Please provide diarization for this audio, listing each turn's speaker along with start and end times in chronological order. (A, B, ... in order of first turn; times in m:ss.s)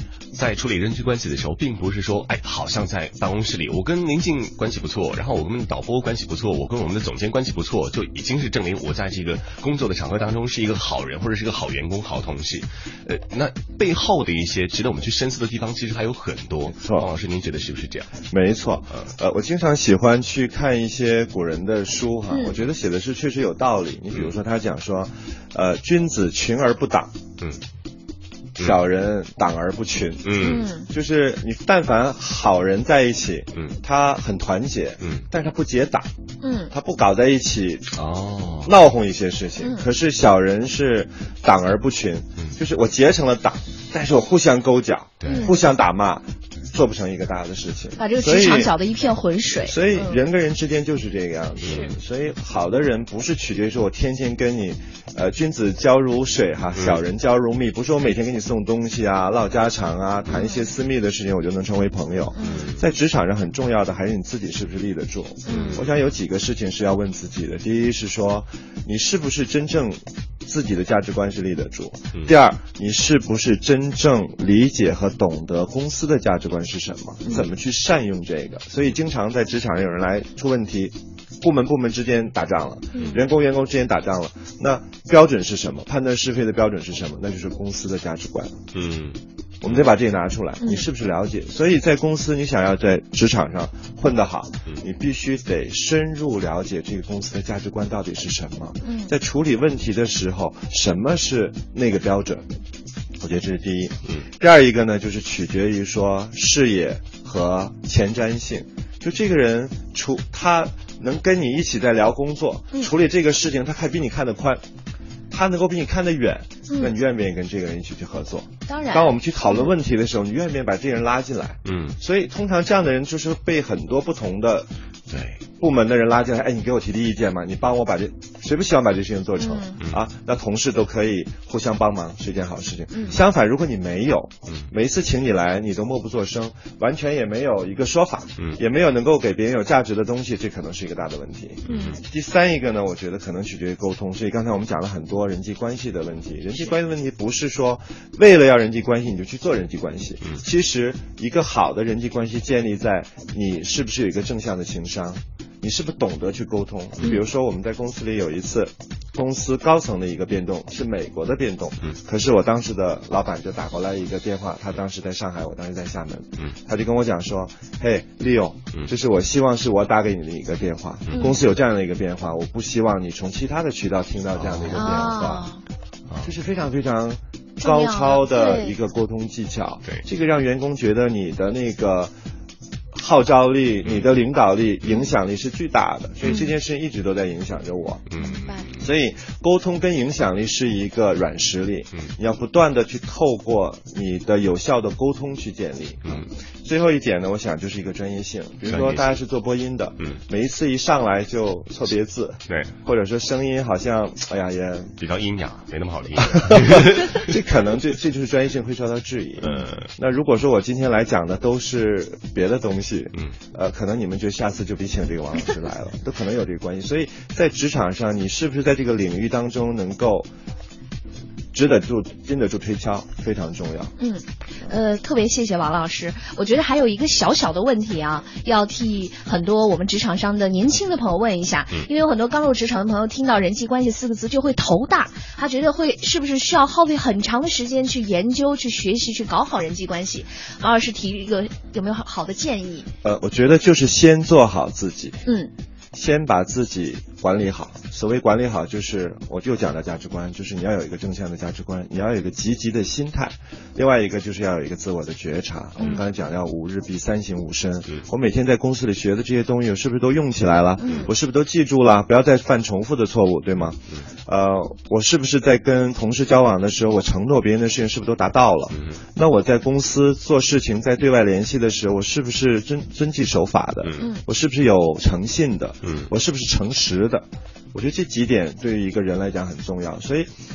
0:00.3-0:18.2 A
0:16.7-0:17.1 B
0:18.3-0:27.1 B
0:28.6-0:36.1 B
0:30.2-0:30.7 A
0:30.4-0:30.9 C
0:36.4-0:36.7 C
0:36.7-0:37.9 B
0:38.0-0:38.7 A
0:38.6-0:48.7 B
0:45.2-0:45.5 A
0:45.3-0:45.6 C
0:48.0-0:50.2 C
0:49.6-1:28.6 B
0:51.6-0:51.9 A
1:02.4-1:02.6 C
1:02.4-1:02.8 A
1:05.5-1:05.8 C
1:05.5-1:05.8 A
1:23.0-1:23.2 A
1:28.7-1:29.9 A
1:29.6-1:42.4 B
1:38.8-1:39.1 C
1:43.2-1:54.6 B
1:55.3-2:04.7 B
1:58.7-1:59.7 C
2:01.7-2:02.0 A
2:05.1-2:05.5 A
2:05.6-2:55.5 B
2:09.4-2:09.8 C
2:21.7-2:22.0 C
2:21.7-2:22.0 A
2:54.4-2:55.3 A
2:54.7-2:55.6 C
2:56.2-3:02.1 B
2:57.6-2:58.7 C
3:03.0-3:08.1 B
3:08.1-3:08.8 A
3:08.2-3:08.7 C
3:08.8-3:25.0 B
3:18.7-3:19.2 A
3:25.0-3:27.3 A
3:26.5-3:40.3 B
3:29.4-3:29.9 A
3:41.5-3:43.9 B
3:44.0-4:02.9 C
4:03.0-4:05.2 B
4:05.3-4:05.5 C
4:05.9-4:40.3 B
4:20.8-4:21.1 C
4:35.8-4:36.1 A